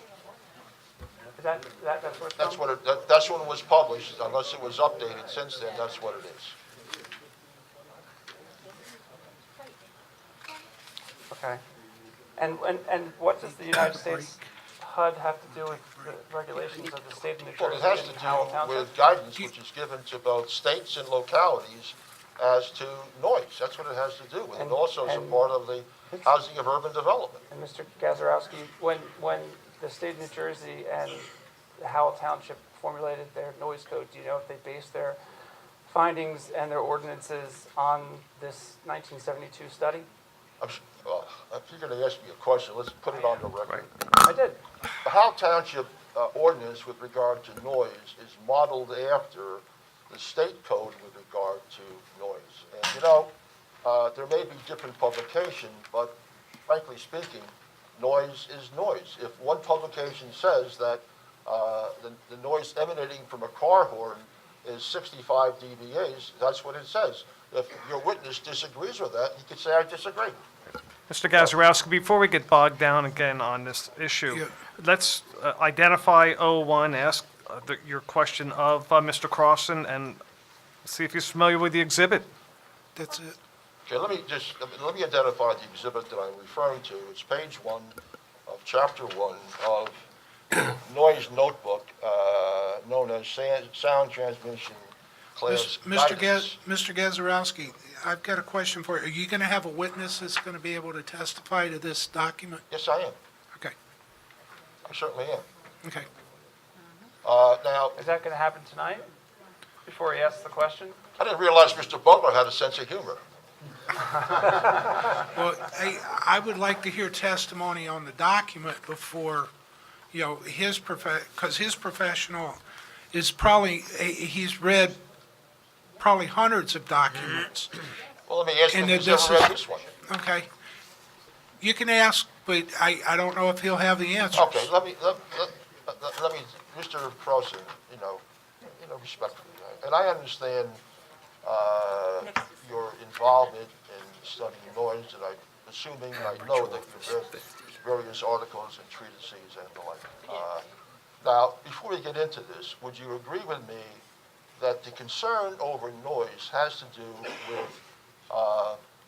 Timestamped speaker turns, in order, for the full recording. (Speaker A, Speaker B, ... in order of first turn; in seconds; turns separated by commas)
Speaker A: 1.4-2.7, Speaker B: 2.4-6.5, Speaker A: 11.3-11.6, Speaker A: 12.4-19.1, Speaker C: 13.4-14.4, Speaker C: 15.8-16.1, Speaker B: 17.6-27.4, Speaker A: 24.6-25.5, Speaker A: 26.1-26.4, Speaker A: 27.5-35.2, Speaker A: 35.9-40.1, Speaker B: 40.6-44.0, Speaker A: 43.1-43.5, Speaker A: 44.2-44.6, Speaker B: 45.0-53.3, Speaker B: 53.8-56.2, Speaker B: 56.7-70.4, Speaker D: 71.1-80.2, Speaker C: 74.3-74.5, Speaker D: 80.8-82.3, Speaker C: 83.0-83.4, Speaker B: 83.9-88.0, Speaker B: 88.5-96.6, Speaker C: 95.5-102.6, Speaker B: 102.7-103.2, Speaker B: 104.9-105.5, Speaker B: 107.2-108.0, Speaker A: 108.0-109.1, Speaker A: 109.9-111.0, Speaker B: 111.2-113.2, Speaker A: 114.0-115.1, Speaker C: 115.3-119.5, Speaker C: 120.1-122.6, Speaker C: 123.1-125.0, Speaker C: 126.0-127.8, Speaker B: 128.3-129.9, Speaker C: 128.7-129.6, Speaker C: 130.1-130.5, Speaker C: 131.6-134.6, Speaker B: 134.3-140.8, Speaker B: 141.4-150.7, Speaker B: 151.2-154.0, Speaker B: 154.6-157.8, Speaker B: 158.3-158.8